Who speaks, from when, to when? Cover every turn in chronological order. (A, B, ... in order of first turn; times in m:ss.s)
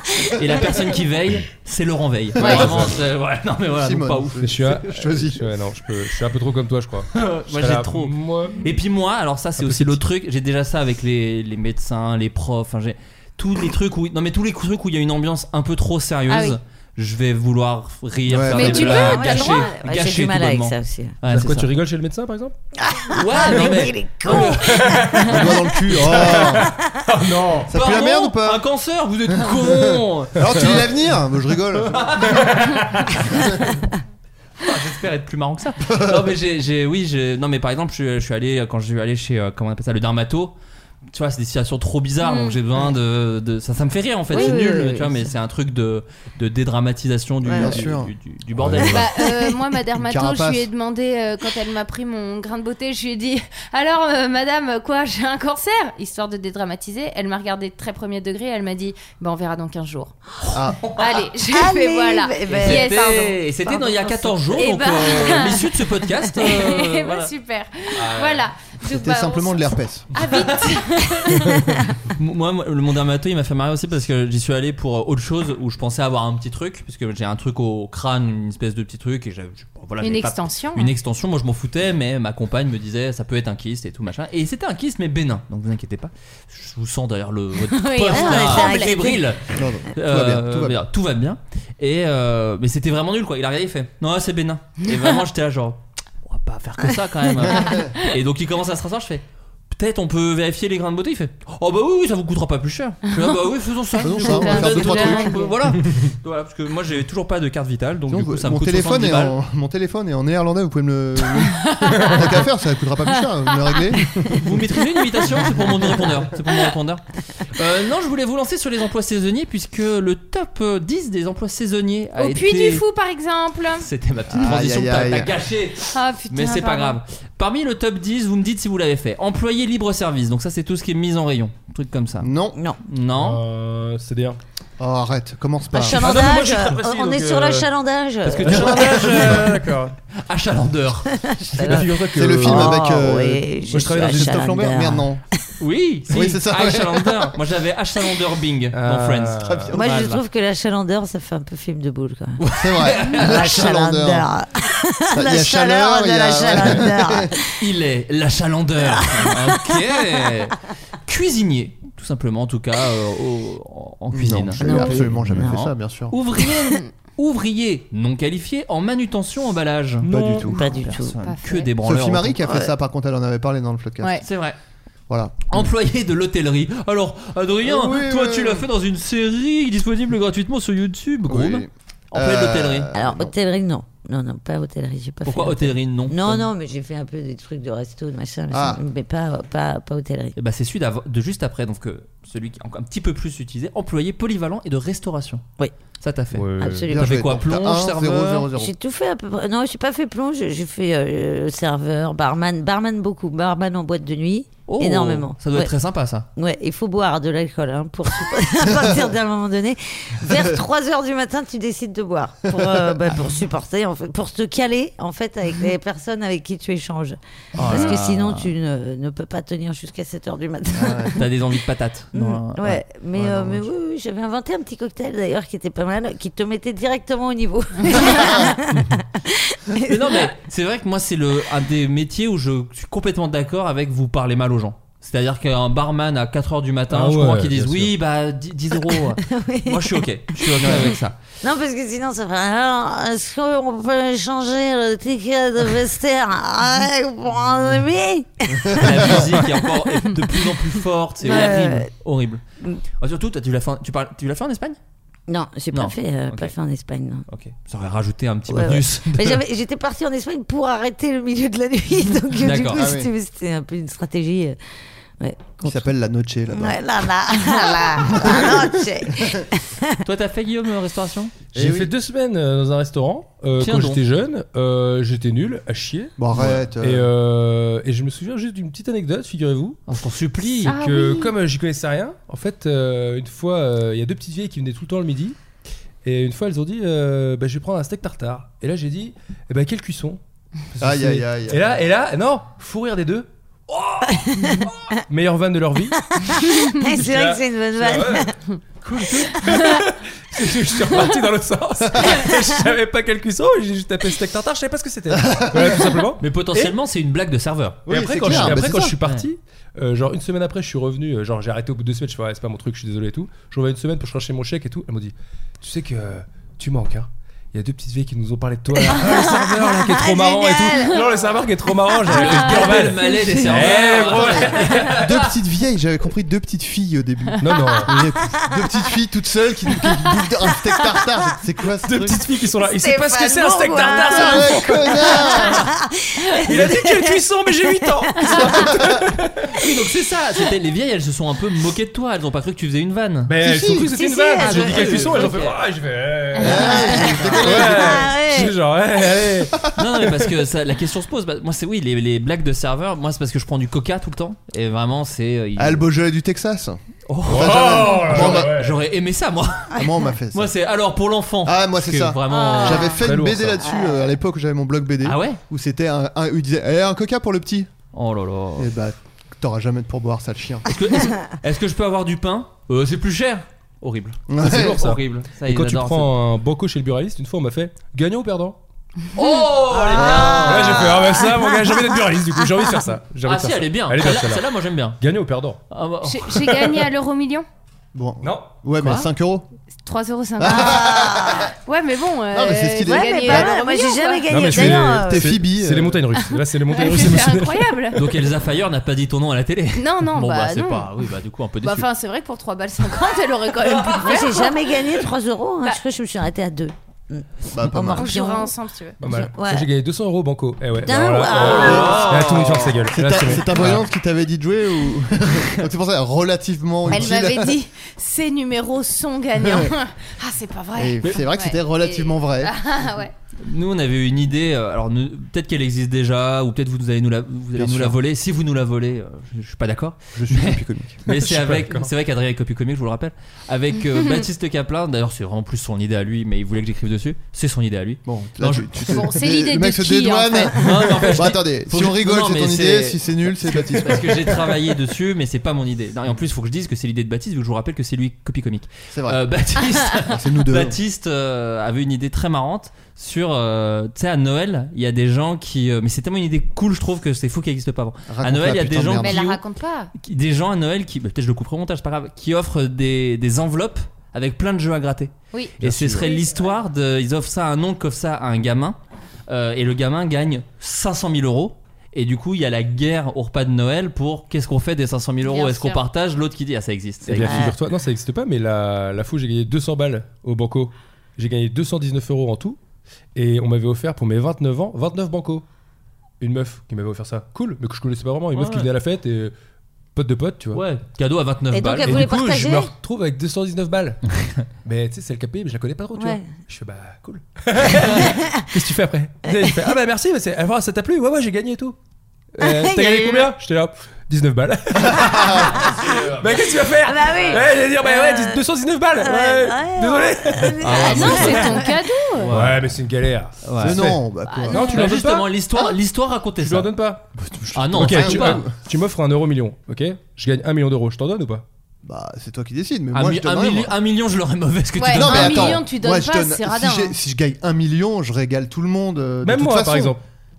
0:00.4-0:04.5 A
0:02.4-0:03.0 B
0:02.4-0:02.7 C
0:03.8-0:05.5 B
0:04.4-0:08.7 D
0:07.1-0:21.7 A
0:09.6-0:10.0 D
0:16.3-0:16.6 C
0:18.3-0:18.9 B
0:18.5-0:19.7 C
0:18.6-0:21.2 E
0:21.3-0:22.5 D
0:22.8-0:26.9 E
0:23.1-0:25.2 A
0:24.5-0:25.4 D
0:25.2-0:26.7 B
0:26.0-0:27.7 D
0:27.7-0:28.6 B
0:27.7-0:30.9 A
0:29.3-0:32.5 B
0:30.5-0:30.8 D
0:31.9-0:33.5 A
0:32.0-0:33.2 D
0:33.4-0:33.6 B
0:34.6-0:40.6 A
0:35.9-0:36.3 B
0:41.1-0:49.1 A
0:42.2-0:42.6 C
0:44.3-0:45.3 E
0:47.4-0:47.8 E
0:47.5-0:48.1 B
0:48.6-0:49.0 D
0:48.9-1:00.2 C
0:49.2-0:49.5 E
0:50.0-0:50.7 B
1:00.5-1:00.9 B
1:01.0-1:03.4 C
1:01.5-1:04.4 E
1:02.5-1:07.3 A
1:04.5-1:11.8 C
1:08.0-1:08.4 A
1:08.8-1:10.1 B
1:10.2-1:11.4 A
1:12.1-1:49.4 A
1:20.0-1:20.9 C
1:27.7-1:29.1 C
1:28.1-1:29.3 E
1:29.6-1:30.8 B
1:37.4-1:37.9 B
1:37.5-1:38.1 C
1:44.0-1:45.6 C
1:44.0-1:45.3 B
1:48.1-1:54.4 B
1:51.5-1:52.2 C
1:54.3-2:02.8 A
2:02.2-2:03.9 C
2:03.8-2:12.3 A
2:04.3-2:05.3 B
2:05.9-2:07.0 C
2:12.2-2:12.6 B
2:12.9-2:13.4 A
2:13.2-2:14.4 D
2:14.8-2:16.1 B
2:15.7-2:19.0 E
2:15.9-2:17.7 D
2:18.3-2:20.0 D
2:18.5-2:19.6 A
2:18.5-2:19.6 B
2:20.2-2:21.9 A
2:21.2-2:25.4 E
2:21.6-2:22.8 D
2:22.2-2:25.2 B
2:23.7-2:24.5 D
2:25.6-2:30.2 A
2:26.1-2:27.3 B
2:28.7-2:29.7 D
2:29.5-2:30.1 B
2:29.7-2:32.4 E
2:32.4-2:33.8 A
2:32.6-2:34.3 B
2:33.0-2:37.5 E
2:35.1-2:37.3 B
2:37.6-2:52.4 A
2:38.8-2:40.2 E
2:44.1-2:46.1 B
2:44.6-2:45.7 E
2:50.1-2:50.6 B
2:50.5-2:51.7 C
2:50.5-2:51.2 E
2:51.8-2:54.2 B
2:52.4-2:52.7 E
2:54.2-2:54.6 A
2:55.1-2:55.7 B
2:55.5-3:02.9 A
2:57.6-2:58.7 B
3:01.3-3:03.3 B
3:02.9-3:10.4 E
3:05.2-3:06.5 A
3:08.5-3:08.8 B
3:10.4-3:15.4 A
3:16.0-3:18.5 A
3:16.3-3:16.9 D
3:16.6-3:17.3 E
3:16.9-3:18.7 B
3:18.5-3:25.7 E
3:24.7-3:26.3 A
3:26.4-3:41.2 E
3:32.5-3:33.2 B
3:37.6-3:38.5 A
3:40.8-3:41.2 B
3:41.2-3:42.8 A
3:42.1-3:50.3 E
3:43.1-3:43.7 B
3:48.0-3:48.6 B
3:49.9-4:01.2 A
3:56.9-3:57.9 D
3:58.9-4:10.7 E
4:00.6-4:01.0 B
4:08.7-4:09.3 B
4:08.8-4:12.4 A
4:11.2-4:11.9 E
4:13.0-4:14.8 A
4:15.3-4:17.2 E
4:15.7-4:16.5 A
4:17.3-4:19.4 A
4:18.5-4:24.6 E
4:22.4-4:22.9 A
4:22.7-4:23.1 B
4:25.2-4:25.9 E
4:25.6-4:26.8 B
4:26.5-4:30.0 E
4:28.0-4:29.4 B
4:30.0-4:31.4 A
4:31.6-4:31.9 B
4:31.6-4:39.8 D
4:33.6-4:34.0 A
4:36.2-4:37.1 B
4:39.9-4:40.8 A
4:40.4-4:45.4 D
4:40.6-4:41.3 C
4:46.0-4:50.2 D
4:50.7-4:56.0 D
4:50.8-4:51.8 B
4:54.1-4:54.9 E
4:56.1-4:58.4 E
4:56.8-4:58.3 D
4:58.8-5:06.2 D
5:01.9-5:02.3 B
5:05.2-5:06.7 B
5:06.2-5:09.3 A
5:07.9-5:25.1 D
5:07.9-5:09.0 B
5:18.8-5:21.4 E
5:22.1-5:25.3 A
5:23.5-5:32.2 B
5:27.4-5:27.8 C
5:27.4-5:28.0 D
5:31.8-5:35.7 D
5:32.7-5:38.7 E
5:34.0-5:35.7 B
5:36.4-5:39.6 D
5:38.5-5:39.0 B
5:39.6-5:43.4 A
5:43.3-5:49.7 D
5:43.4-5:43.9 B
5:43.8-5:45.3 E
5:44.4-5:45.6 A
5:46.4-5:48.2 B
5:46.4-5:48.6 E
5:49.8-5:55.9 A
5:55.6-5:56.8 B
5:57.1-6:03.0 A
5:57.3-5:58.8 D
5:57.3-5:58.7 B
5:59.8-6:00.5 B
6:01.4-6:07.7 B
6:02.3-6:03.0 E
6:03.0-6:03.7 D
6:03.6-6:04.2 E
6:05.0-6:05.4 A
6:07.9-6:08.7 A
6:08.6-6:10.7 B
6:10.7-6:16.1 A
6:14.3-6:14.9 B
6:14.4-6:18.6 D
6:19.2-6:21.0 A
6:19.9-6:21.0 B
6:20.0-6:21.7 E
6:20.3-6:24.5 D
6:23.2-6:25.0 A
6:25.0-6:25.6 D
6:25.7-6:26.4 A
6:26.0-6:27.5 C
6:27.9-6:29.5 B
6:28.2-6:28.6 D
6:28.8-6:29.1 A
6:29.8-6:30.9 C
6:30.4-6:31.5 B
6:30.4-6:31.5 E
6:31.6-6:34.3 C
6:32.3-6:33.6 B
6:32.8-6:35.4 E
6:34.3-6:38.1 D
6:34.4-6:36.1 B
6:36.3-6:38.0 C
6:38.0-6:41.9 A
6:39.8-6:40.9 C
6:41.6-6:44.5 C
6:43.6-6:44.2 A
6:44.0-6:48.5 E
6:47.5-6:48.2 B
6:48.0-6:49.0 C
6:49.0-6:53.8 D
6:49.1-6:49.7 E
6:50.8-6:52.1 E
6:51.3-6:52.9 A
6:51.5-6:57.6 B
6:56.9-7:03.1 C
6:59.4-6:59.7 B
7:00.8-7:02.5 B
7:03.4-7:19.1 A
7:07.6-7:08.0 B
7:10.2-7:11.0 B
7:11.1-7:11.9 D
7:18.1-7:24.6 B
7:18.9-7:20.6 C
7:20.6-7:39.4 A
7:28.9-7:29.2 B
7:30.0-7:30.8 B
7:38.1-7:39.2 B
7:39.0-7:39.9 C
7:40.0-7:48.8 A
7:45.3-7:46.6 C
7:45.6-7:46.1 B
7:49.3-7:57.5 A
7:55.2-7:55.8 C
7:57.1-8:02.6 D
7:57.2-7:57.6 E
8:03.2-8:05.4 D
8:06.2-8:09.3 D
8:08.3-8:08.7 A
8:10.0-8:10.6 D
8:10.5-8:12.1 A
8:11.5-8:12.7 E
8:11.8-8:14.0 D
8:14.6-8:21.8 D
8:16.0-8:16.3 E
8:18.0-8:18.4 E
8:19.3-8:19.7 E
8:22.4-8:31.2 D
8:22.4-8:23.3 E
8:24.8-8:25.5 B
8:25.6-8:26.4 A
8:25.6-8:25.9 E
8:26.8-8:28.4 E
8:29.0-8:31.8 E
8:30.6-8:31.6 A
8:30.8-8:32.3 C
8:32.2-8:32.7 A
8:32.3-8:35.3 D
8:33.4-8:33.8 A
8:33.6-8:34.9 B
8:34.3-8:34.8 C
8:34.6-8:36.7 A
8:36.4-8:37.1 D
8:37.2-8:38.6 B
8:37.6-8:38.4 A
8:37.7-8:41.4 D
8:41.8-8:43.7 B
8:42.9-8:45.6 A
8:44.8-8:47.0 C
8:44.9-8:50.0 B
8:49.2-8:50.0 D